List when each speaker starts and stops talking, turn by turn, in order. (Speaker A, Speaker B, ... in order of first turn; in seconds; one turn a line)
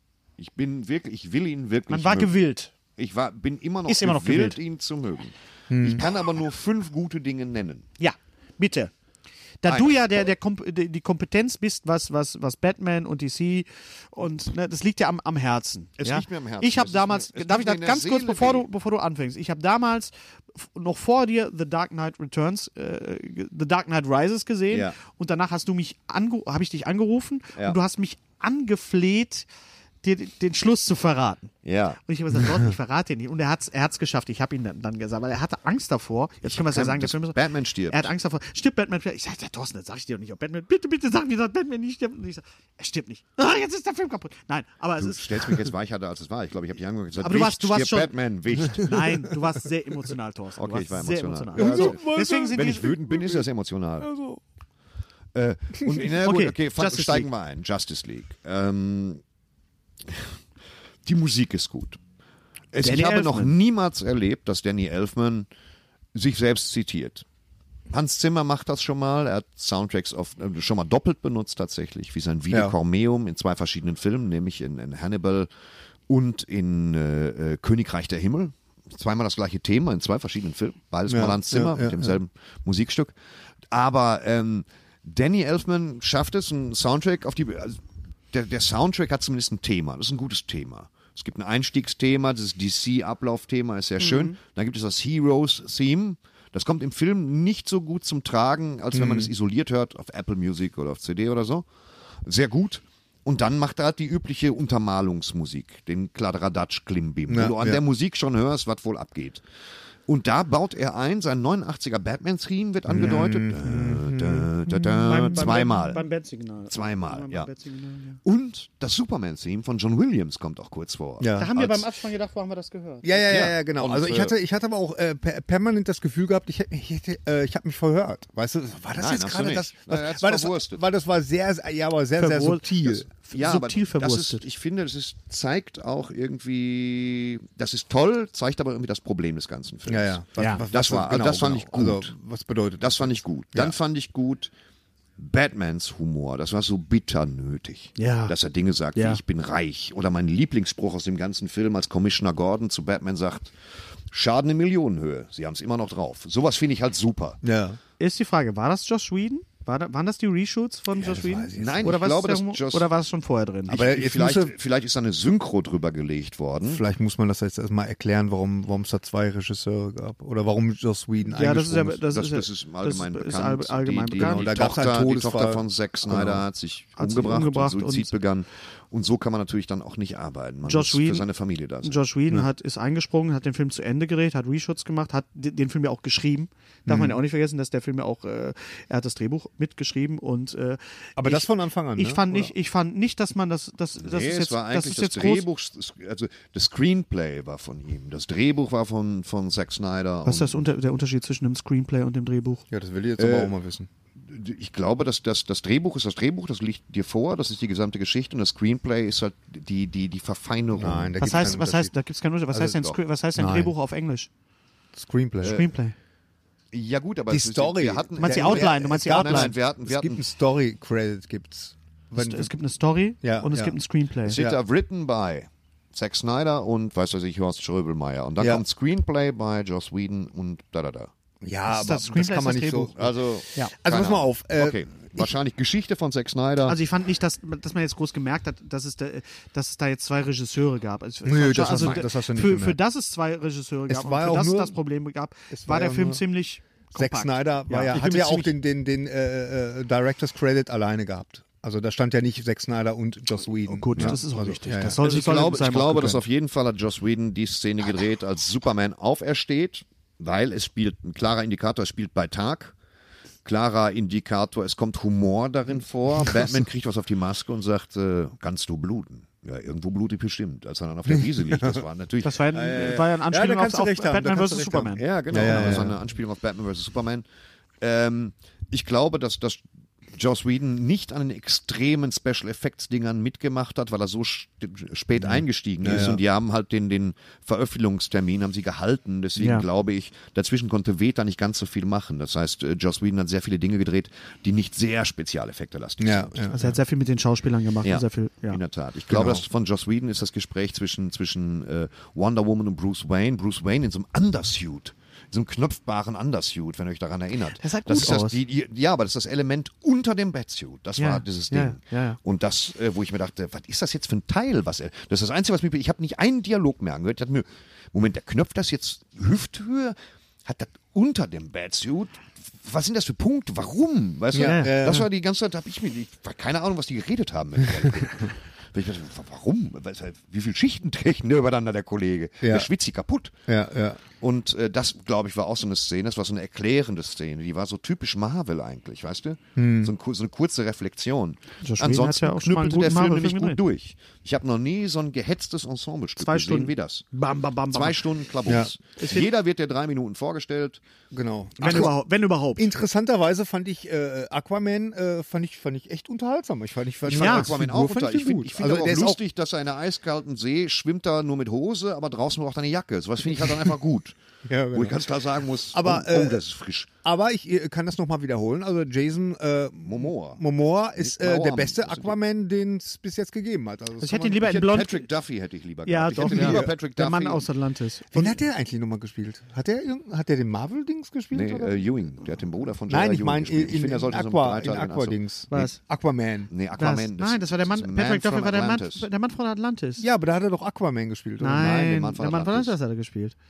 Speaker A: 0.4-2.3
Speaker B: 1.9-2.7
Speaker A: 3.0-7.8
Speaker B: 3.9-4.6
Speaker C: 5.7-6.0
Speaker B: 8.0-8.9
Speaker B: 9.6-29.5
Speaker A: 9.7-9.9
Speaker A: 16.0-18.7
Speaker A: 24.7-24.9
Speaker B: 30.0-31.5
Speaker A: 31.6-32.0
Speaker B: 32.0-45.6
Speaker A: 36.4-38.1
Speaker A: 45.0-49.0
Speaker B: 47.2-52.9
Speaker A: 50.6-54.1
Speaker C: 51.5-53.5
Speaker C: 54.0-54.4
Speaker A: 55.3-59.2
Speaker B: 56.0-57.3
Speaker A: 60.0-60.4
Speaker A: 61.0-62.0
Speaker A: 62.7-65.5
Speaker B: 62.8-63.5
Speaker A: 66.1-67.2
Speaker A: 67.9-75.5
Speaker A: 76.1-83.1
Speaker C: 81.1-82.1
Speaker A: 83.7-87.8
Speaker A: 88.3-101.7
Speaker B: 94.0-94.3
Speaker C: 98.9-99.3
Speaker A: 102.2-109.4
Speaker C: 107.3-107.8
Speaker A: 110.1-116.0
Speaker C: 112.9-115.7
Speaker B: 115.0-118.2
Speaker A: 116.7-117.5
Speaker A: 118.2-121.9
Speaker C: 121.2-121.5
Speaker B: 121.4-123.2
Speaker C: 123.0-133.1
Speaker A: 123.3-124.3
Speaker A: 129.0-130.8
Speaker B: 132.2-134.4
Speaker A: 133.3-142.1
Speaker C: 139.9-143.8
Speaker B: 140.4-140.6
Speaker A: 142.8-144.5
Speaker A: 145.2-153.5
Speaker B: 148.0-148.3
Speaker B: 148.9-149.2
Speaker A: 154.1-157.4
Speaker C: 157.4-157.8
Speaker B: 158.0-163.8
Speaker C: 160.9-161.9
Speaker A: 161.5-162.9
Speaker A: 163.7-166.8
Speaker C: 163.7-164.5
Speaker C: 166.6-172.0
Speaker B: 171.3-174.5
Speaker A: 172.1-182.0
Speaker C: 174.2-176.4
Speaker B: 177.0-178.1
Speaker B: 180.6-181.2
Speaker B: 181.8-195.4
Speaker C: 186.8-187.2
Speaker C: 191.2-192.5
Speaker A: 194.0-200.7
Speaker B: 200.2-202.6
Speaker C: 202.7-203.9
Speaker A: 203.2-203.5
Speaker A: 204.2-211.6
Speaker C: 210.7-211.9
Speaker B: 211.2-214.3
Speaker A: 212.5-213.0
Speaker C: 213.3-213.7
Speaker C: 214.9-215.6
Speaker B: 215.4-215.9
Speaker A: 215.4-215.7
Speaker A: 216.7-220.2
Speaker C: 217.3-222.5
Speaker B: 218.2-219.5
Speaker B: 222.1-224.4
Speaker C: 223.2-223.7
Speaker A: 224.2-231.1
Speaker C: 231.4-233.1
Speaker B: 231.7-232.9
Speaker A: 232.9-236.8
Speaker C: 233.7-235.3
Speaker B: 236.7-248.5
Speaker C: 241.2-242.8
Speaker A: 241.6-242.0
Speaker C: 243.9-244.8
Speaker C: 245.5-246.2
Speaker C: 246.9-255.0
Speaker A: 247.9-248.4
Speaker B: 253.7-256.2
Speaker A: 255.0-262.7
Speaker A: 263.4-273.0
Speaker C: 271.1-271.8
Speaker B: 272.2-275.8
Speaker C: 272.5-276.0
Speaker A: 275.0-277.2
Speaker A: 277.8-296.6
Speaker C: 285.2-286.2
Speaker B: 289.4-289.6
Speaker C: 296.0-296.6
Speaker B: 296.5-298.6
Speaker A: 297.8-333.4
Speaker C: 299.1-299.4
Speaker B: 307.6-308.4
Speaker B: 311.0-312.2
Speaker C: 324.3-325.1
Speaker B: 324.4-325.0
Speaker C: 332.4-332.7
Speaker C: 333.5-334.0
Speaker A: 334.2-347.1
Speaker C: 339.6-339.9
Speaker B: 341.6-343.6
Speaker B: 346.2-348.0
Speaker A: 347.7-350.8
Speaker B: 349.0-349.3
Speaker C: 351.1-351.9
Speaker B: 351.6-352.7
Speaker C: 352.6-359.2
Speaker A: 357.1-364.1
Speaker B: 357.1-357.5
Speaker C: 364.4-365.1
Speaker A: 364.7-366.9
Speaker C: 365.7-366.4
Speaker C: 367.0-374.6
Speaker A: 369.8-370.4
Speaker A: 371.0-372.1
Speaker B: 374.0-375.1
Speaker A: 374.4-377.4
Speaker B: 375.9-378.4
Speaker C: 376.1-376.7
Speaker C: 378.1-381.9
Speaker A: 381.3-385.2
Speaker C: 382.9-386.5
Speaker B: 385.5-385.8
Speaker A: 386.5-389.1
Speaker B: 386.8-390.1
Speaker C: 390.0-391.7
Speaker B: 391.4-393.4
Speaker A: 391.5-392.7